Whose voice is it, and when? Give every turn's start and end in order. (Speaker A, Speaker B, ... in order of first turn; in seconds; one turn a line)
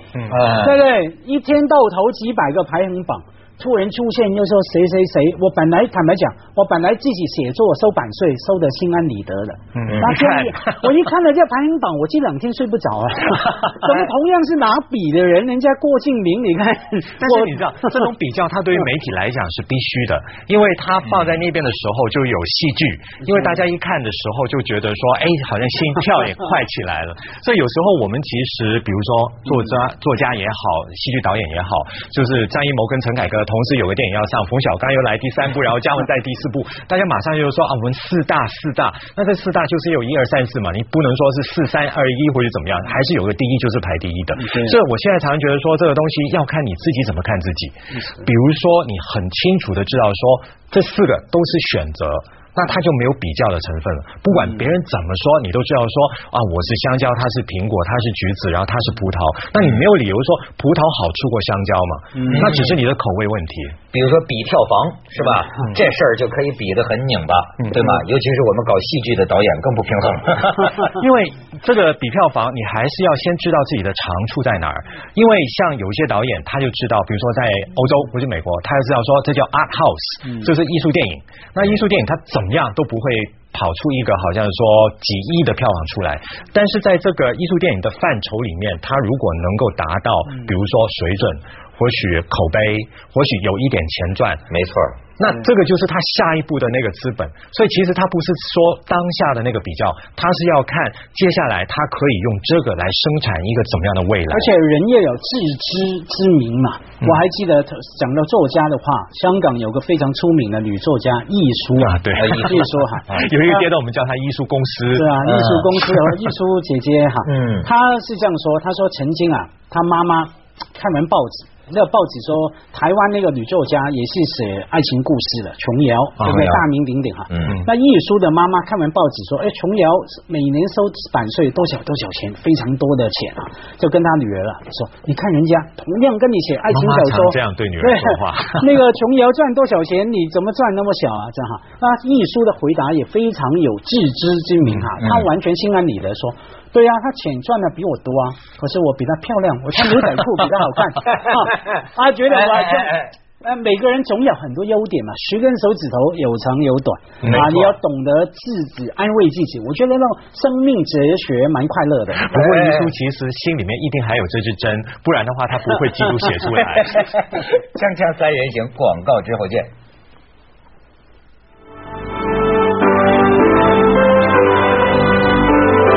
Speaker A: 0.3-0.8
Speaker B: 0.5-17.6
Speaker C: 9.8-10.8
Speaker A: 9.9-10.1
Speaker C: 17.2-63.8
Speaker A: 21.1-21.4
Speaker B: 44.4-44.8
Speaker B: 62.1-62.5
Speaker A: 62.3-62.7
Speaker A: 63.9-70.9
Speaker C: 70.9-94.4
Speaker A: 94.5-95.0
Speaker C: 95.2-104.5
Speaker B: 104.3-113.7
Speaker C: 111.8-115.2
Speaker A: 112.1-113.2
Speaker B: 114.9-162.4
Speaker A: 115.2-115.7
Speaker A: 117.2-117.7
Speaker C: 126.2-126.6
Speaker A: 127.3-127.6
Speaker C: 136.7-138.7
Speaker A: 145.0-145.3
Speaker A: 152.3-153.1
Speaker C: 157.2-157.5
Speaker A: 157.3-157.7
Speaker C: 162.2-167.1
Speaker A: 162.3-162.9
Speaker A: 166.9-169.7